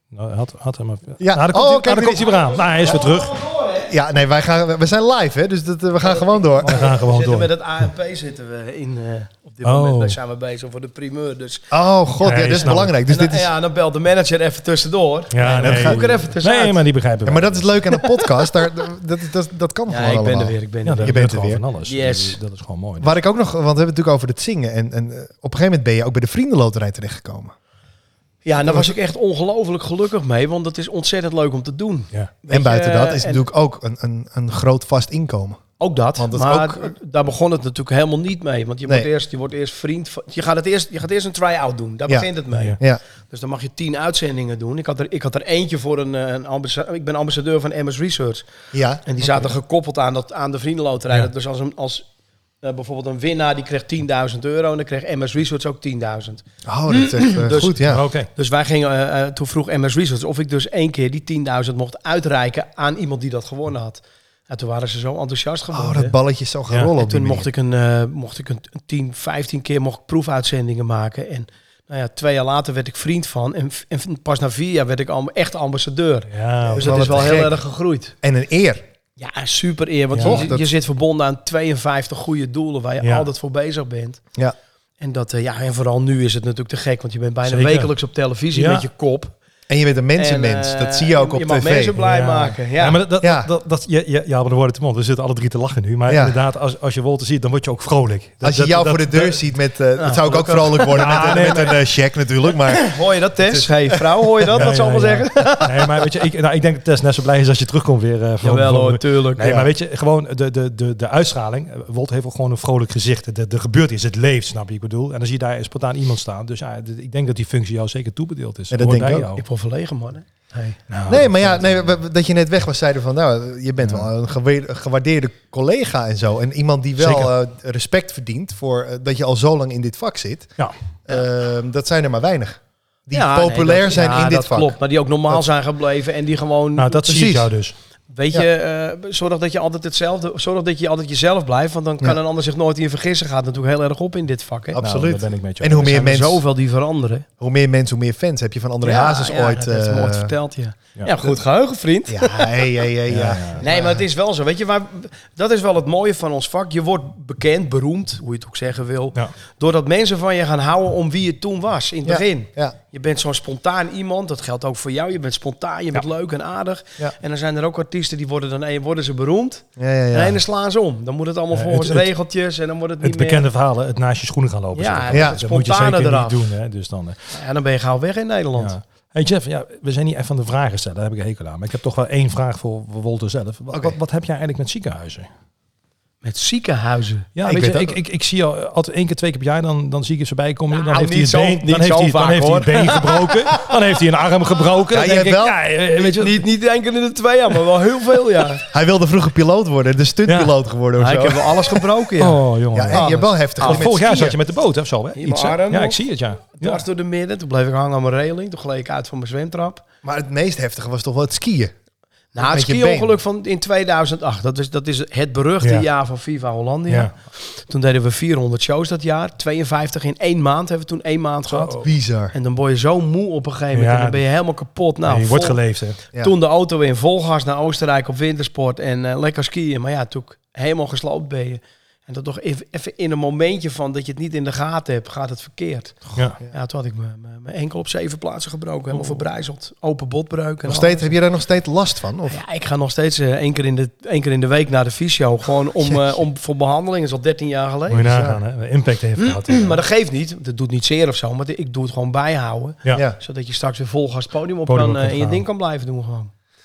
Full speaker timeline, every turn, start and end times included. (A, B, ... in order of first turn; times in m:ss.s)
0:00.1-0:03.5 A
0:01.2-0:02.4 B
0:02.8-0:03.9 C
0:03.9-0:06.9 B
0:06.1-0:11.6 C
0:06.7-0:07.5 A
0:09.6-0:10.2 A
0:11.7-0:13.5 B
0:12.2-0:13.0 A
0:13.0-0:16.8 C
0:15.3-0:17.8 A
0:15.4-0:16.1 B
0:17.2-0:21.6 B
0:18.0-0:18.5 C
0:19.9-0:21.2 C
0:20.8-0:23.2 A
0:21.8-0:22.4 C
0:23.0-0:27.5 B
0:28.4-0:33.4 C
0:28.6-0:29.0 B
0:32.5-0:35.6 B
0:35.8-0:48.5 C
0:36.2-0:36.9 B
0:42.1-0:43.0 B
0:42.5-0:42.8 A
0:48.7-0:49.5 B
0:49.0-0:52.1 C
0:52.6-1:06.2 C
0:56.7-0:58.0 B
0:57.9-0:58.3 A
1:05.7-1:07.5 B
1:06.9-1:18.1 C
1:16.3-1:17.3 A
1:16.7-1:17.6 B
1:18.2-1:18.8 B
1:19.2-1:24.2 C
1:20.1-1:20.4 A
1:20.2-1:20.7 B
1:23.0-1:23.3 A
1:25.0-1:29.3 C
1:27.5-1:27.9 A
1:28.5-1:28.8 A
1:29.7-1:32.0 B
1:30.2-1:33.0 C
1:32.0-1:39.4 A
1:33.2-1:33.5 B
1:36.1-1:36.4 B
1:38.4-1:44.7 B
1:40.0-1:41.6 C
1:40.9-1:41.8 A
1:42.6-1:46.0 C
1:44.5-1:59.4 A
1:48.4-1:49.6 C
1:58.7-1:59.3 B
1:59.4-2:00.8 C
2:00.9-2:01.7 A
2:01.1-2:10.6 B
2:07.0-2:07.3 A
2:11.1-2:14.8 B
2:13.1-2:17.3 C
2:16.8-2:17.8 A
2:17.1-2:17.5 B
2:18.1-2:24.8 C
2:24.7-2:26.4 B
2:24.8-2:26.0 A
2:25.7-2:27.3 C
2:27.4-2:30.3 B
2:28.8-2:32.7 C
2:32.1-2:34.0 B
2:33.1-2:33.6 A
2:33.6-2:53.5 C
2:42.0-2:42.8 B
2:49.8-2:50.4 B
2:51.5-2:52.1 A
2:53.0-2:57.3 A
2:54.8-2:56.4 C
2:55.1-2:55.4 B
2:57.3-2:58.8 C
2:58.6-3:05.3 A
3:03.7-3:04.0 B
3:06.2-3:07.3 C
3:07.4-3:16.4 A
3:07.5-3:08.0 B
3:10.7-3:13.7 C
3:14.9-3:15.6 B
3:15.9-3:18.6 C
3:18.7-3:21.8 B
3:20.3-3:20.5 A
3:21.0-3:23.9 C
3:22.2-3:26.8 A
3:22.7-3:24.4 B
3:25.2-3:26.0 C
3:26.6-3:29.8 C
3:30.0-3:31.7 B
3:32.3-3:41.8 C
3:32.4-3:33.2 B
3:41.5-3:41.9 A
3:41.8-3:42.3 B
3:42.3-3:45.6 C
3:43.7-3:44.2 A
3:45.1-3:46.0 A
3:46.2-4:01.1 C
4:00.7-4:02.4 B
4:02.3-4:08.1 C
4:07.9-4:09.8 A
4:08.0-4:08.4 B
4:09.2-4:16.3 C
4:14.7-4:15.4 A